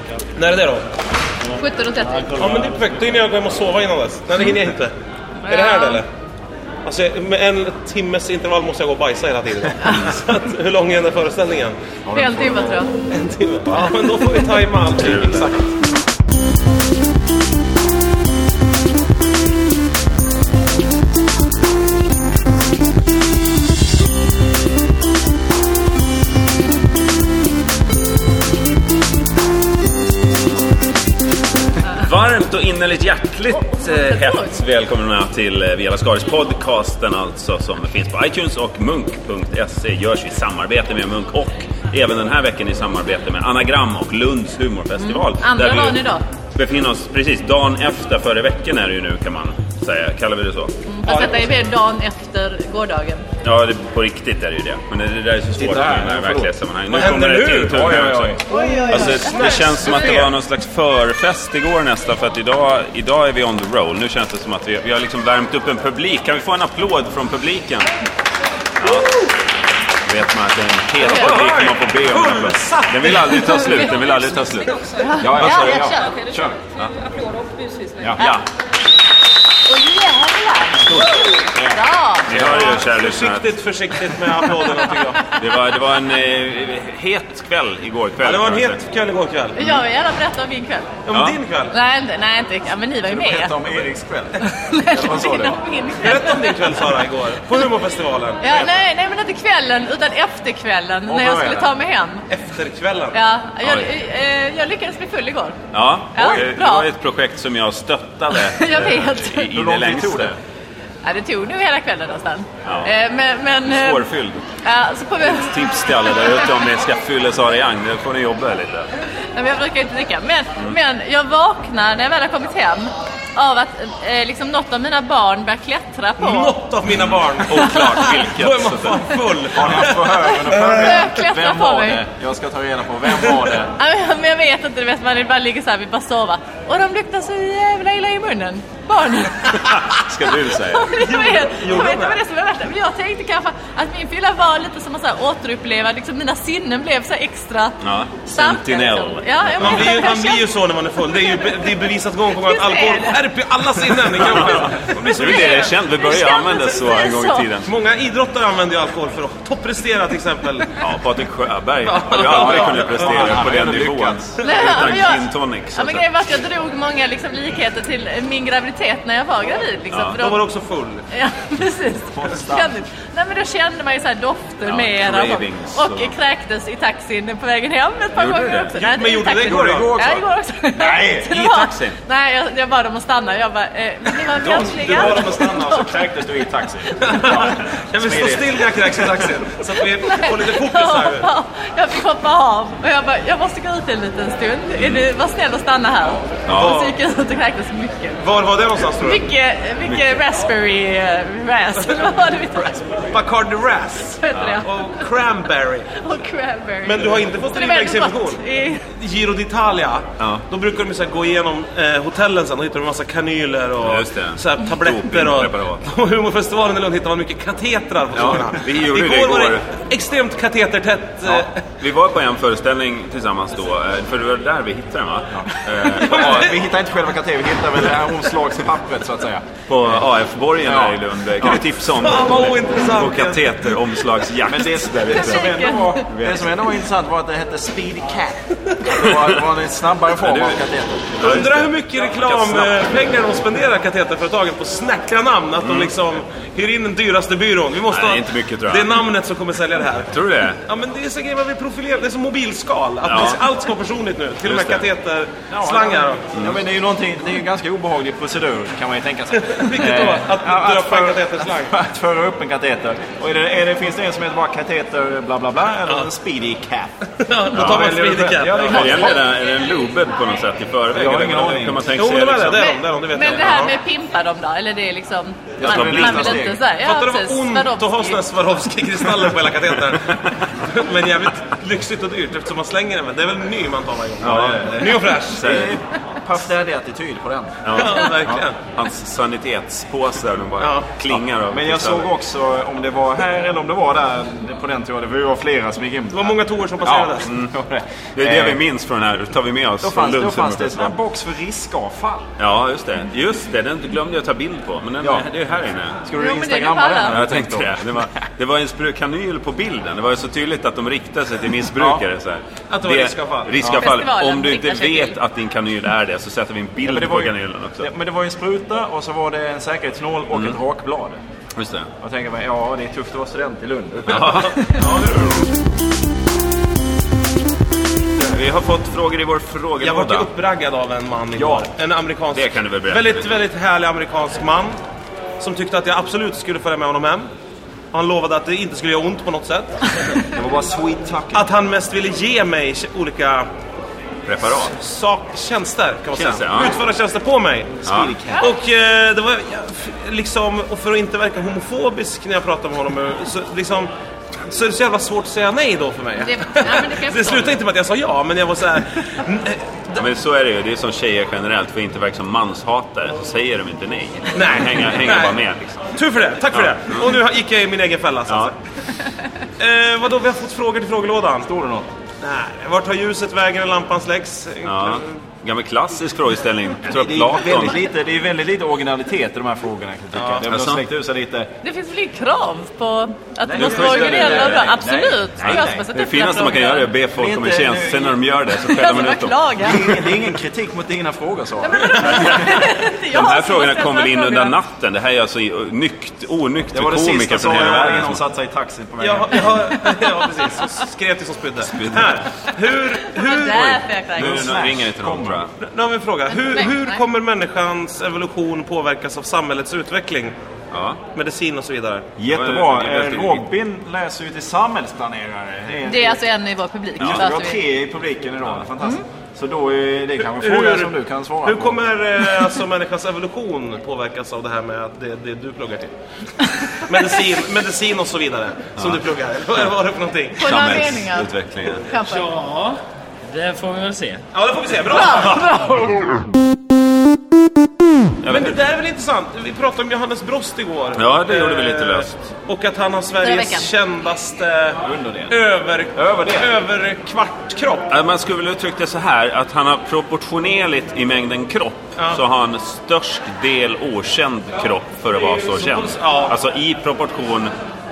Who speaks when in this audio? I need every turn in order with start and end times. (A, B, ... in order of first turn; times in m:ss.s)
0:00.3-0:00.8 A
0:01.5-0:02.5 B
0:02.3-0:04.9 A
0:05.4-0:06.0 B
0:05.5-0:06.1 A
0:06.8-0:11.8 A
0:12.0-0:12.8 C
0:12.1-0:12.9 B
0:13.1-0:15.7 A
0:14.9-0:15.5 D
0:31.9-0:46.0 D
0:33.7-0:34.5 B
0:45.0-0:46.2 B
0:46.5-0:50.7 D
0:50.8-0:53.2 B
0:51.0-0:51.4 A
0:53.4-1:07.9 D
0:55.6-0:56.5 C
0:56.9-0:58.0 A
0:57.7-0:58.8 C
0:58.5-0:59.7 B
0:58.7-1:00.3 A
1:08.8-1:09.2 D
1:08.8-1:09.3 A
1:10.0-1:15.9 D
1:11.0-1:14.1 A
1:15.0-1:16.2 B
1:15.2-1:16.6 C
1:17.9-1:18.2 C
1:18.2-1:18.4 D
1:18.2-1:18.4 B
1:19.6-1:22.3 B
1:21.5-1:22.6 C
1:22.3-1:23.6 D
1:22.3-1:25.3 A
1:25.3-1:28.8 D
1:28.2-1:29.7 A
1:29.6-1:30.9 B
1:31.0-1:31.7 A
1:31.1-1:31.4 D
1:31.7-1:33.6 B
1:33.0-1:35.6 C
1:34.4-1:36.8 B
1:36.0-1:38.7 A
1:38.4-1:42.2 B
1:41.1-1:41.7 C
1:42.3-1:43.2 A
1:43.1-1:45.6 B
1:43.6-1:43.9 D
1:45.7-1:50.4 D
1:46.1-1:46.9 B
1:46.2-1:46.5 C
1:48.3-1:49.5 B
1:49.5-1:50.4 C
1:51.0-1:54.1 B
1:52.6-1:52.9 D
1:53.6-1:54.4 D
1:54.6-1:56.5 B
1:55.2-1:58.9 D
1:59.3-2:06.6 B
2:06.2-2:11.0 A
2:06.9-2:09.7 D
2:07.6-2:08.0 B
2:09.5-2:13.7 C
2:10.3-2:12.0 B
2:13.8-2:19.8 B
2:19.5-2:20.9 D
2:20.5-2:30.5 B
2:20.9-2:22.2 A
2:27.8-2:30.0 D
2:29.6-2:35.7 A
2:31.1-2:31.7 B
2:32.4-2:33.2 B
2:34.2-2:37.7 D
2:35.1-2:37.5 B
2:37.6-2:40.7 A
2:40.8-2:46.0 D
2:41.8-2:43.4 A
2:42.2-2:44.4 C
2:44.4-2:50.4 B
2:49.9-2:50.2 D
2:50.1-2:51.0 A
2:51.1-3:06.2 B
2:52.1-2:52.7 C
2:54.6-2:56.1 D
2:58.1-2:58.8 D
2:58.7-2:59.9 A
2:59.4-3:01.4 C
3:01.2-3:02.0 D
3:04.3-3:09.3 C
3:04.6-3:05.5 A
3:06.9-3:07.5 B
3:07.0-3:11.3 A
3:10.0-3:18.2 B
3:14.8-3:15.0 D
3:16.4-3:16.8 D
3:16.5-3:17.0 A
3:18.2-3:19.2 A
3:19.0-3:23.1 B
3:19.8-3:20.2 D
3:23.1-3:26.1 A
3:24.2-3:25.1 B
3:24.3-3:24.6 D
3:25.9-3:28.8 B
3:26.8-3:41.6 A
3:30.2-3:30.4 D
3:33.8-3:35.8 D
3:38.1-3:39.6 D
3:41.2-3:46.6 D
3:45.3-3:50.0 C
3:46.0-3:46.4 A
3:49.7-3:55.5 D
3:50.6-3:51.6 C
3:51.9-3:53.6 A
3:54.4-4:01.6 C
3:55.0-3:56.0 B
3:56.1-3:56.4 D
3:59.0-3:59.4 D
4:00.2-4:00.6 D
4:01.2-4:03.1 D
4:01.2-4:10.1 A
4:05.6-4:05.9 D
4:07.9-4:09.0 D
4:10.1-4:10.6 D
4:10.6-4:16.2 A
4:13.0-4:13.4 D
4:14.4-4:14.9 D
4:15.5-4:26.9 C
4:16.3-4:16.6 D
4:19.4-4:21.7 A
4:27.2-4:29.1 A
4:27.5-4:29.2 C
4:27.5-4:27.8 D
4:28.6-4:32.7 D
4:28.7-4:29.1 B
4:30.9-4:32.0 C
4:32.0-4:33.7 A
4:32.5-4:38.2 B
4:33.2-4:33.6 D
4:35.6-4:36.6 C
4:35.6-4:36.5 D
4:36.7-4:45.7 A
4:44.2-4:48.4 C
4:44.2-4:45.8 D
4:47.6-4:52.1 D
4:47.7-4:48.6 A
4:50.6-4:50.9 A
4:51.1-4:58.6 C
4:56.1-4:57.3 A
4:57.2-4:57.5 D
4:58.1-5:00.9 D
4:59.8-5:02.3 C
5:02.4-5:06.0 D
5:05.0-5:05.2 C
5:06.0-5:08.1 C
5:06.1-5:07.2 B
5:07.1-5:17.9 D
5:11.7-5:12.0 C
5:12.7-5:13.8 A
5:13.6-5:15.2 B
5:16.8-5:21.2 C
5:20.3-5:20.6 D
5:21.6-5:21.9 D
5:22.0-5:24.8 C
5:24.1-5:24.7 D
5:24.7-5:25.5 A
5:28.2-5:30.3 D
5:29.8-5:34.8 A
5:31.4-5:31.7 C
5:32.3-5:33.4 D
5:35.4-5:37.3 A
5:37.9-5:39.8 A
5:40.3-5:41.5 C
5:41.3-5:43.5 A
5:44.2-5:44.7 D
5:44.6-5:47.8 A
5:46.1-5:46.8 D
5:47.8-5:48.5 C
5:47.8-5:48.1 D
5:48.4-5:53.9 A
5:54.5-6:00.0 A
5:56.2-5:57.6 B
6:00.0-6:05.8 D
6:04.3-6:05.4 A
6:05.9-6:08.6 A
6:06.5-6:07.2 D
6:09.6-6:11.5 A
6:11.4-6:11.9 C
6:12.2-6:15.2 A
6:14.6-6:17.8 D
6:16.8-6:21.5 C
6:20.1-6:20.4 A
6:20.5-6:20.8 D
6:21.6-6:26.9 B
6:23.4-6:25.9 C
6:23.6-6:24.8 D
6:25.4-6:30.2 D
6:27.1-6:28.2 C
6:28.6-6:30.0 B
6:29.6-6:32.4 C
6:31.6-6:34.5 B
6:32.0-6:38.2 D
6:36.7-6:39.7 C
6:39.0-6:43.8 A
6:41.7-6:42.2 D
6:43.0-6:44.5 B
6:43.5-6:45.5 D
6:44.2-6:45.4 C
6:45.6-6:50.4 A
6:46.3-6:47.0 B
6:50.7-6:51.0 D
6:51.1-6:52.1 A
6:52.2-6:56.2 C
6:52.3-6:53.4 D
6:55.8-6:57.6 B
6:57.0-7:01.8 C
6:57.0-6:57.3 D
7:00.2-7:05.9 A
7:06.7-7:10.5 A
7:10.4-7:12.3 B
7:10.4-7:11.9 D
7:12.0-7:14.2 E
7:14.3-7:15.6 A
7:18.2-7:18.6 D
7:18.3-7:27.9 A
7:20.9-7:22.1 D
7:23.2-7:23.7 B
7:24.8-7:25.4 C
7:25.9-7:26.6 C
7:27.9-7:37.5 D
7:35.5-7:36.3 A